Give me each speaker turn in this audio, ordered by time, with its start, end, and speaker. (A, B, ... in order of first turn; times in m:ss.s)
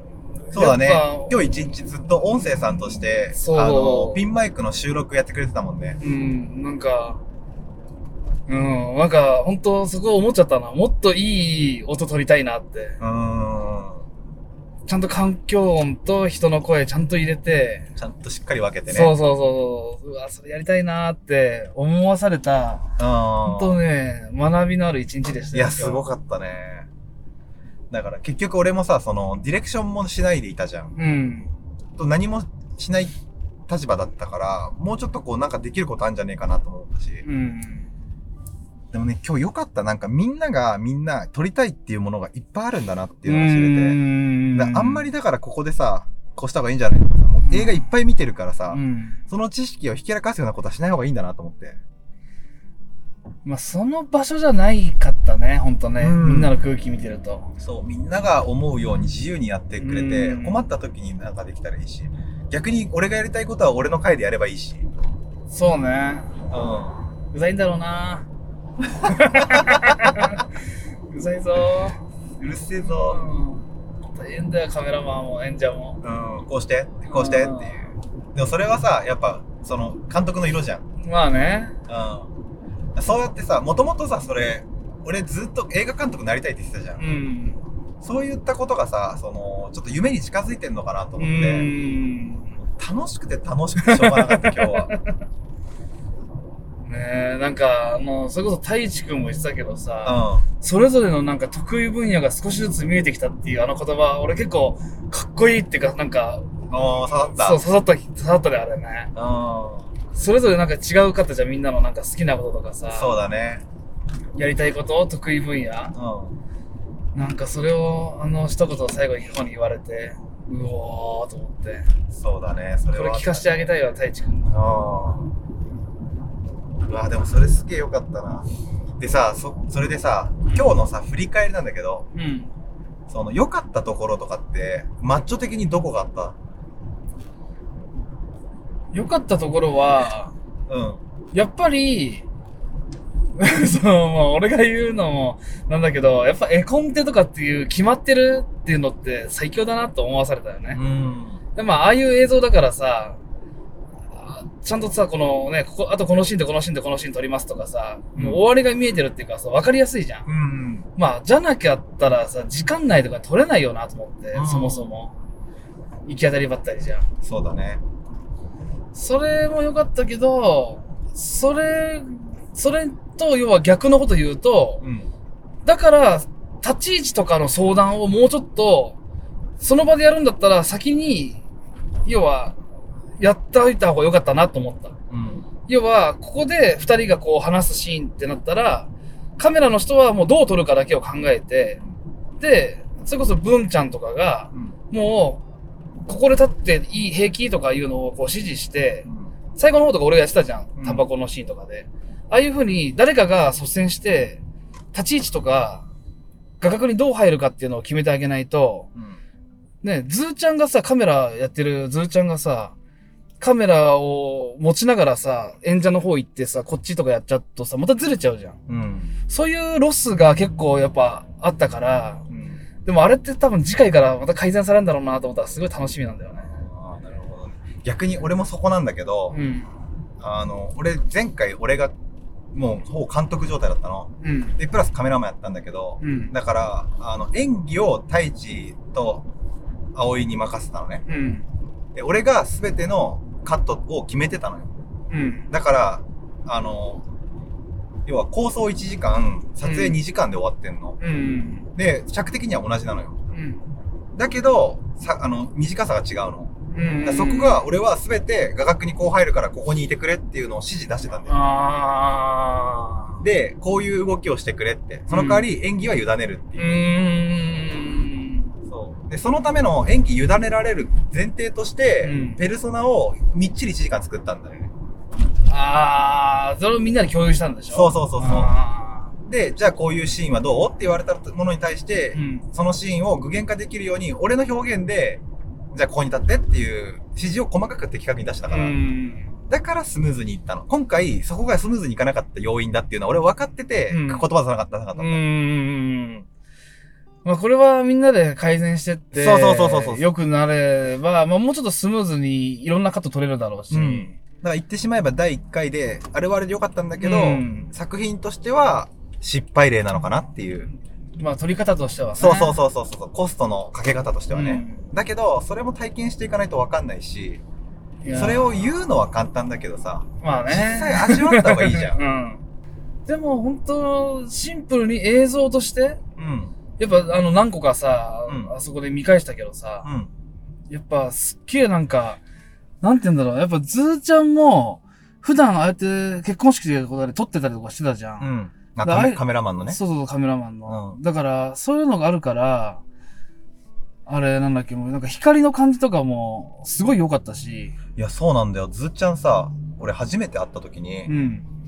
0:00.5-0:06.0 A
0:00.5-0:01.4 B
0:03.3-0:04.2 B
0:06.0-0:07.2 B
0:08.5-0:13.0 B
0:13.0-0:14.0 A
0:14.8-0:17.9 B
0:18.0-0:19.1 A
0:18.9-0:22.9 B
0:23.0-0:23.8 A
0:23.4-0:26.0 B
0:25.5-0:26.9 A
0:27.9-0:30.9 A
0:31.0-0:31.5 B
0:32.0-0:33.1 A
0:33.7-0:37.2 A
0:37.2-0:37.9 B
0:38.9-0:44.0 A
0:43.2-0:45.1 B
0:44.5-0:51.8 A
0:47.4-0:47.9 B
0:48.7-0:49.2 B
0:53.4-0:57.5 B
0:56.0-0:56.5 A
0:57.6-1:04.9 A
0:59.8-1:00.6 B
1:05.5-1:06.3 B
1:06.5-1:07.0 A
1:07.3-1:08.3 B
1:08.9-1:10.3 A
1:09.0-1:10.4 B
1:11.1-1:12.0 B
1:12.4-1:13.2 A
1:12.8-1:13.6 B
1:14.2-1:16.0 B
1:16.0-1:20.8 A
1:17.1-1:17.8 B
1:21.0-1:21.8 B
1:21.9-1:22.3 A
1:22.9-1:27.0 A
1:27.0-1:27.6 B
1:28.0-1:31.7 A
1:31.2-1:32.5 B
1:32.6-1:34.9 A
1:33.8-1:35.1 B
1:36.8-1:46.5 B
1:40.0-1:40.4 A
1:46.7-1:47.6 A
1:47.4-1:49.1 B
1:49.1-1:49.9 A
1:50.1-1:53.2 B
1:52.9-1:53.6 A
1:54.4-1:56.0 B
1:56.0-1:56.4 A
1:57.1-2:01.9 B
2:02.1-2:03.7 A
2:02.9-2:04.5 B
2:04.5-2:05.3 A
2:06.8-2:12.1 A
2:12.1-2:12.5 B
2:13.1-2:16.4 A
2:18.9-2:20.3 B
2:20.7-2:21.0 A
2:21.3-2:22.2 B
2:23.4-2:30.8 B
2:30.7-2:31.4 A
2:31.6-2:33.2 B
2:34.2-2:40.3 B
2:38.2-2:38.4 A
2:40.2-2:40.9 A
2:41.0-2:45.1 B
2:44.3-2:44.9 A
2:46.1-2:47.0 B
2:47.2-2:47.8 A
2:48.9-2:54.8 B
2:54.8-2:55.1 A
2:55.6-2:59.0 B
2:59.6-3:01.4 B
3:02.0-3:02.6 B
3:03.2-3:04.9 B
3:05.1-3:05.5 A
3:05.7-3:11.8 B
3:12.4-3:15.4 B
3:16.0-3:24.4 B
3:20.8-3:21.0 A
3:24.9-3:25.8 B
3:26.6-3:28.9 B
3:29.8-3:32.7 B
3:33.4-3:38.6 B
3:38.7-3:39.1 A
3:39.3-3:42.2 B
3:42.3-3:42.6 A
3:42.8-3:46.5 B
3:46.4-3:49.4 A
3:49.3-3:49.7 B
3:50.2-3:51.9 A
3:52.5-3:59.2 A
3:54.2-3:54.6 B
3:56.0-3:56.3 B
3:59.9-4:01.0 A
4:01.1-4:01.4 B
4:01.9-4:04.7 A
4:05.1-4:05.5 B
4:05.5-4:07.0 A
4:08.0-4:11.0 A
4:09.6-4:10.0 B
4:11.0-4:11.7 B
4:11.7-4:13.2 A
4:13.3-4:13.6 B
4:14.2-4:21.3 A
4:16.7-4:17.6 B
4:21.3-4:23.2 B
4:23.2-4:26.9 A
4:25.1-4:25.5 B
4:26.6-4:28.5 B
4:28.7-4:34.7 A
4:32.0-4:32.4 B
4:35.5-4:39.1 B
4:37.7-4:38.5 A
4:39.2-4:45.2 A
4:42.1-4:42.4 B
4:45.7-4:48.8 A
4:48.5-4:49.3 B
4:49.5-4:55.2 A
4:53.9-4:54.2 B
4:55.0-4:56.2 B
4:57.2-5:04.2 B
4:59.1-5:00.0 A
5:03.7-5:10.7 A
5:07.0-5:07.7 B
5:11.2-5:12.6 B
5:12.2-5:17.4 A
5:14.3-5:14.9 B
5:18.0-5:18.7 B
5:18.1-5:22.0 A
5:20.2-5:22.4 B
5:23.0-5:26.0 B
5:26.2-5:26.5 A
5:26.8-5:29.9 B
5:28.3-5:28.5 A
5:29.8-5:30.1 A
5:30.7-5:32.2 B
5:32.8-5:38.3 B
5:38.2-5:39.8 A
5:38.8-5:42.8 B
5:40.7-5:41.0 A
5:44.1-5:47.8 B
5:48.0-5:51.1 A
5:51.1-5:51.5 B